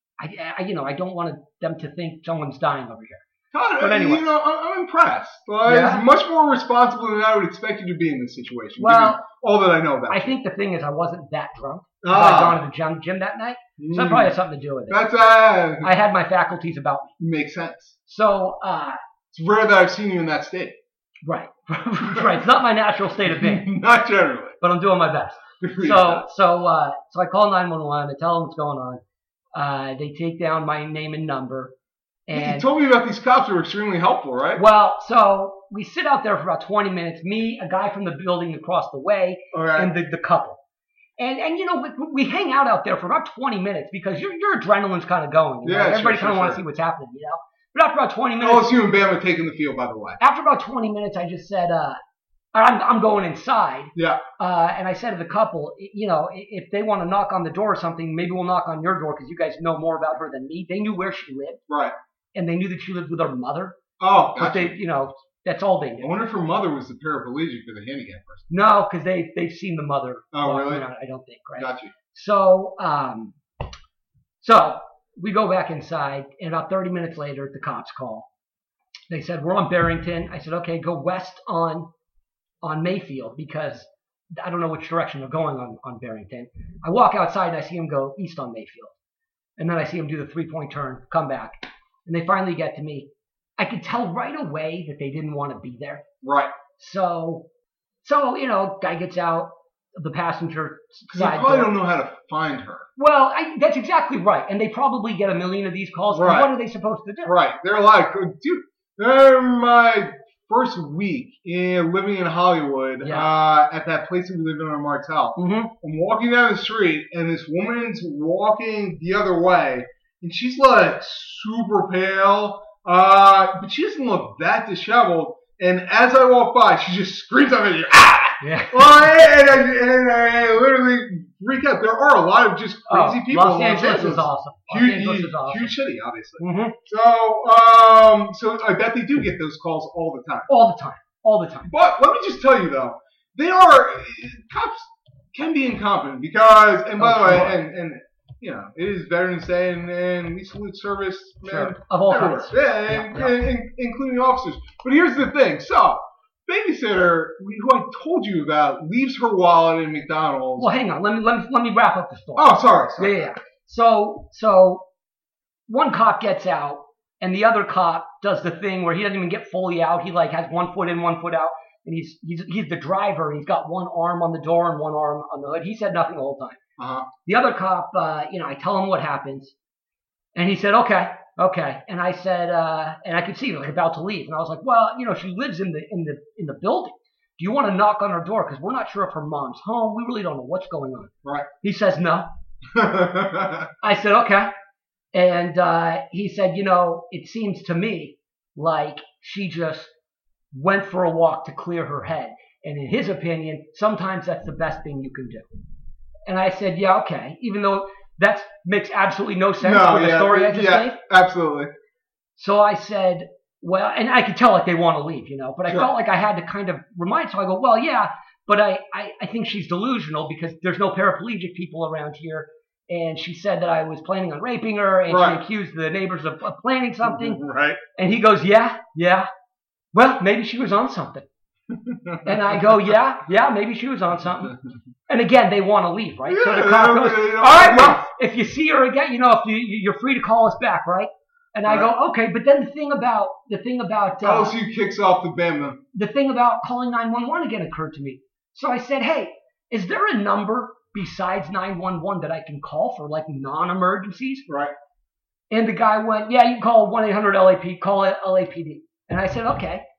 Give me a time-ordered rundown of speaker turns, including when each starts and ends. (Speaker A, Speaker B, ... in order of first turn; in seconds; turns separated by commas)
Speaker A: 0.2-3.2, Speaker B: 3.5-10.3, Speaker A: 3.8-4.2, Speaker A: 5.7-6.0, Speaker A: 8.8-9.2, Speaker A: 10.1-15.0, Speaker B: 12.0-12.6, Speaker B: 13.8-14.4, Speaker B: 14.9-15.9, Speaker A: 15.8-17.1, Speaker B: 17.2-17.9, Speaker A: 18.1-19.0, Speaker B: 19.3-20.8, Speaker A: 21.2-23.7, Speaker B: 22.1-22.4, Speaker B: 23.3-24.6, Speaker A: 24.6-29.0, Speaker B: 25.6-26.3, Speaker A: 29.6-31.7, Speaker A: 32.3-32.7, Speaker B: 32.3-34.6, Speaker A: 34.6-40.6, Speaker B: 39.5-39.9, Speaker A: 41.2-48.7, Speaker B: 45.6-46.6, Speaker B: 48.4-50.2, Speaker A: 50.2-52.0, Speaker A: 52.5-61.6, Speaker B: 54.0-54.2, Speaker B: 61.7-61.9, Speaker A: 62.4-63.8, Speaker B: 64.0-64.8, Speaker A: 64.4-66.1, Speaker B: 66.0-68.5, Speaker A: 68.5-73.4, Speaker B: 70.3-70.9, Speaker B: 71.6-71.9, Speaker A: 74.4-78.3, Speaker A: 79.1-81.9, Speaker A: 82.6-88.9, Speaker A: 89.6-96.0, Speaker B: 96.2-96.5, Speaker A: 96.8-97.5, Speaker A: 98.0-101.8, Speaker B: 101.1-102.9, Speaker A: 103.0-107.3, Speaker B: 106.1-106.5, Speaker B: 107.2-140.5, Speaker A: 113.0-113.3, Speaker A: 115.4-115.7, Speaker A: 128.4-128.9, Speaker A: 132.9-135.8, Speaker A: 136.4-136.8, Speaker A: 140.5-141.7, Speaker B: 141.7-160.7, Speaker A: 147.0-147.6, Speaker A: 151.4-153.4, Speaker A: 160.6-164.9, Speaker B: 162.4-163.3, Speaker A: 165.7-176.6, Speaker B: 176.8-177.1, Speaker A: 177.3-179.6, Speaker A: 180.4-192.3, Speaker B: 192.7-193.7, Speaker A: 193.8-194.5, Speaker A: 195.1-199.9, Speaker A: 200.5-205.5, Speaker A: 206.3-211.0, Speaker B: 209.6-211.7, Speaker A: 212.4-227.4, Speaker B: 225.1-225.4, Speaker B: 227.0-227.8, Speaker A: 228.0-229.3, Speaker A: 229.9-231.3, Speaker B: 231.7-232.8, Speaker A: 232.2-234.6, Speaker A: 235.1-244.6, Speaker B: 236.3-238.0, Speaker B: 241.7-241.9, Speaker B: 244.2-245.8, Speaker A: 245.9-254.5, Speaker B: 254.5-254.7, Speaker A: 255.5-259.8